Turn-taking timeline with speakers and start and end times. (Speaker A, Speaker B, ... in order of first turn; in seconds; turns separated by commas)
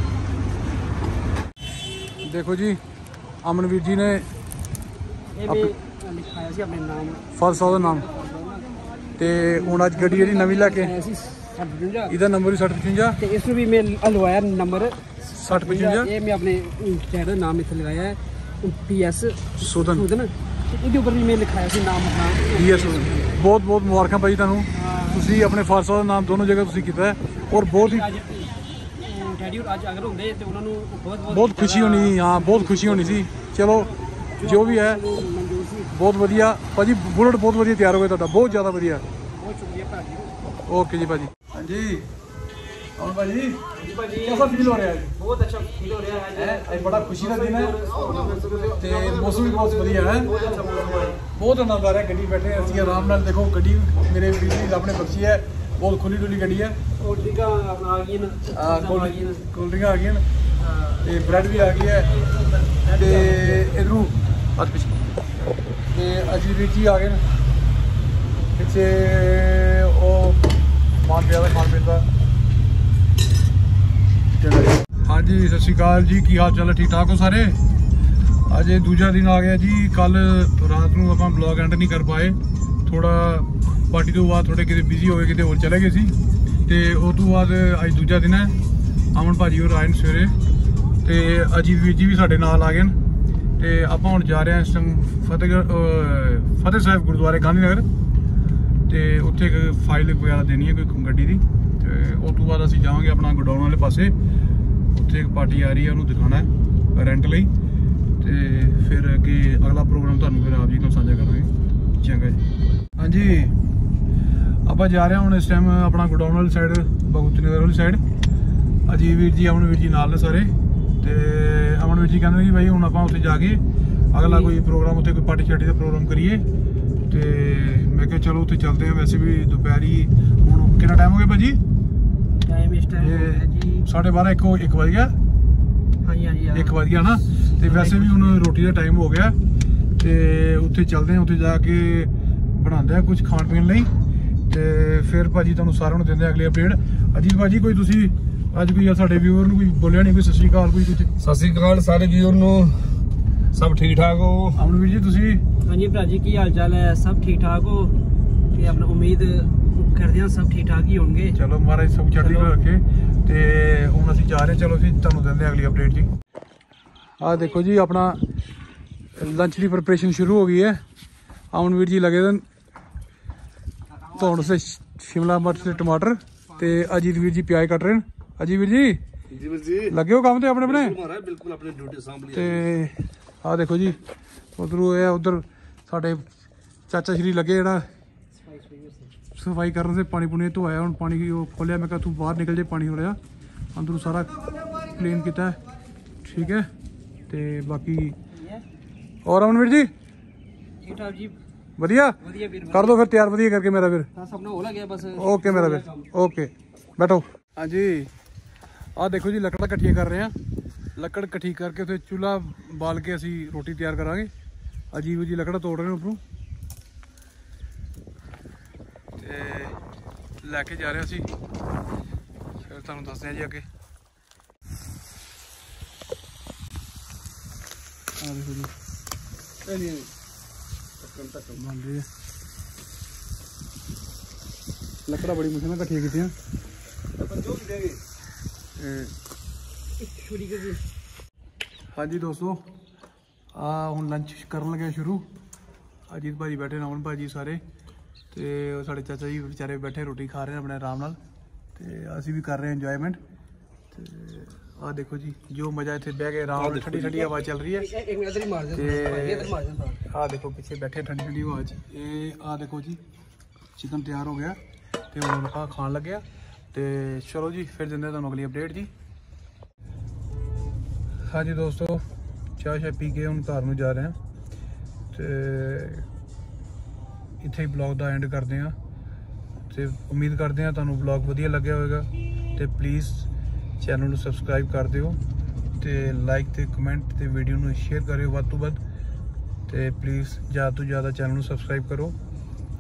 Speaker A: 2.2-2.8, Speaker A: 3.4-4.3, Speaker B: 5.4-8.7, Speaker A: 5.5-5.7, Speaker A: 7.3-8.1, Speaker A: 9.2-10.9, Speaker B: 9.4-12.2, Speaker A: 12.1-13.2, Speaker B: 13.2-23.3, Speaker A: 15.3-16.1, Speaker A: 19.6-20.1, Speaker A: 22.4-28.1, Speaker B: 24.7-25.3, Speaker B: 27.7-36.5, Speaker A: 31.3-35.0, Speaker A: 35.9-39.0, Speaker B: 38.4-40.4, Speaker A: 40.7-42.1, Speaker A: 43.0-43.6, Speaker B: 43.8-51.2, Speaker A: 44.2-45.1, Speaker A: 46.3-47.8, Speaker A: 48.8-50.3, Speaker C: 50.6-51.1, Speaker A: 51.3-56.8, Speaker B: 52.5-53.3, Speaker B: 57.0-59.5, Speaker A: 58.5-60.2, Speaker B: 60.6-63.8, Speaker A: 61.0-62.1, Speaker A: 62.9-64.9, Speaker A: 65.9-67.2, Speaker A: 68.6-70.5, Speaker A: 71.0-72.1, Speaker A: 74.3-77.6, Speaker A: 78.5-86.1, Speaker A: 86.7-88.5, Speaker A: 89.1-90.3, Speaker A: 91.0-93.0, Speaker A: 93.6-97.9, Speaker A: 98.9-104.2, Speaker A: 104.9-107.5, Speaker A: 108.2-113.5, Speaker A: 114.7-118.0, Speaker A: 118.9-126.4, Speaker B: 124.2-124.5, Speaker A: 127.1-131.6, Speaker B: 132.4-133.9, Speaker A: 133.0-135.1, Speaker B: 136.0-138.4, Speaker A: 136.5-139.4, Speaker A: 140.0-143.9, Speaker A: 144.5-151.1, Speaker C: 151.2-152.9, Speaker C: 153.5-154.6, Speaker A: 154.5-155.4, Speaker B: 155.7-157.9, Speaker B: 158.5-161.4, Speaker A: 161.3-166.1, Speaker B: 162.2-162.5, Speaker A: 167.2-168.2, Speaker A: 169.2-170.8, Speaker A: 171.5-172.4, Speaker B: 174.0-174.6, Speaker A: 174.2-179.0, Speaker B: 175.2-177.0, Speaker C: 179.3-179.9, Speaker A: 179.9-181.0, Speaker C: 180.6-182.7, Speaker A: 182.3-184.0, Speaker A: 184.6-186.3, Speaker A: 186.9-187.9, Speaker B: 188.3-189.2, Speaker A: 189.4-193.2, Speaker A: 193.7-195.6, Speaker A: 196.2-196.7, Speaker A: 197.3-198.2, Speaker B: 198.3-198.6, Speaker A: 199.2-199.9, Speaker B: 200.8-201.4, Speaker A: 201.8-202.2, Speaker B: 202.2-203.1, Speaker A: 202.7-204.1, Speaker B: 204.1-206.1, Speaker A: 205.2-208.1, Speaker A: 209.0-210.3, Speaker A: 211.0-214.3, Speaker A: 214.9-216.2, Speaker A: 219.2-219.8, Speaker A: 220.4-221.3, Speaker A: 222.7-223.7, Speaker A: 228.2-228.7, Speaker C: 229.6-230.1, Speaker C: 231.0-231.6, Speaker A: 231.6-232.1, Speaker A: 235.1-236.3, Speaker C: 237.2-238.0, Speaker A: 238.8-239.1, Speaker B: 240.0-240.8, Speaker A: 241.9-242.7, Speaker A: 243.5-245.3, Speaker A: 246.1-247.6, Speaker A: 248.3-251.2, Speaker A: 251.8-253.2, Speaker A: 253.9-257.9, Speaker C: 256.6-257.2, Speaker B: 257.3-260.0, Speaker A: 258.7-259.5, Speaker A: 260.1-263.0, Speaker A: 263.8-264.6, Speaker A: 265.1-268.9, Speaker A: 271.3-272.0, Speaker A: 272.6-274.2, Speaker A: 275.1-276.1, Speaker A: 277.4-278.8, Speaker A: 279.7-283.3, Speaker A: 283.8-285.2, Speaker A: 285.8-288.8, Speaker A: 289.7-292.2